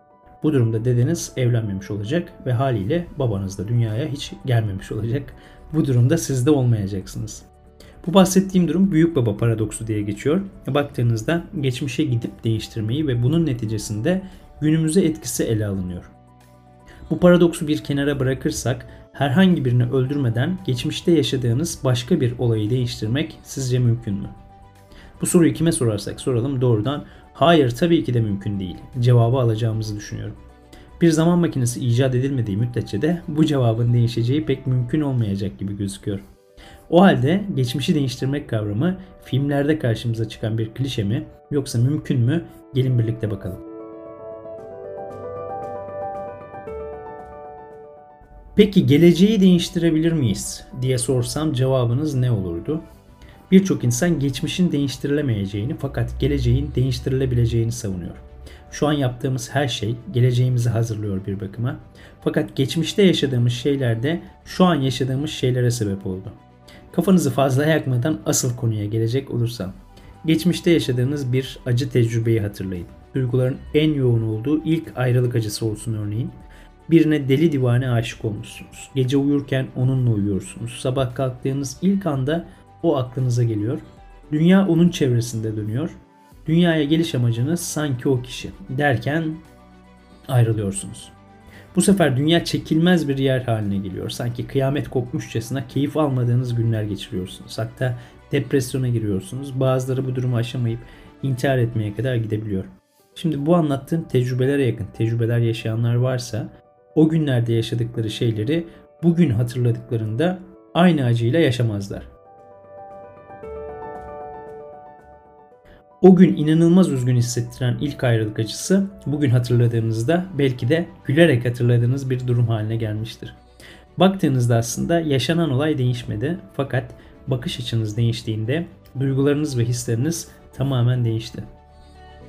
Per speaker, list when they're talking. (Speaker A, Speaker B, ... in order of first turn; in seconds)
Speaker A: 0.4-7.5, 8.0-16.1, 17.1-24.3, 25.2-30.4, 31.0-36.2, 36.9-43.6, 48.5-52.8, 53.5-66.4, 66.9-76.3, 76.9-89.4, 90.3-91.1, 91.7-112.1, 116.0-123.4, 124.0-131.5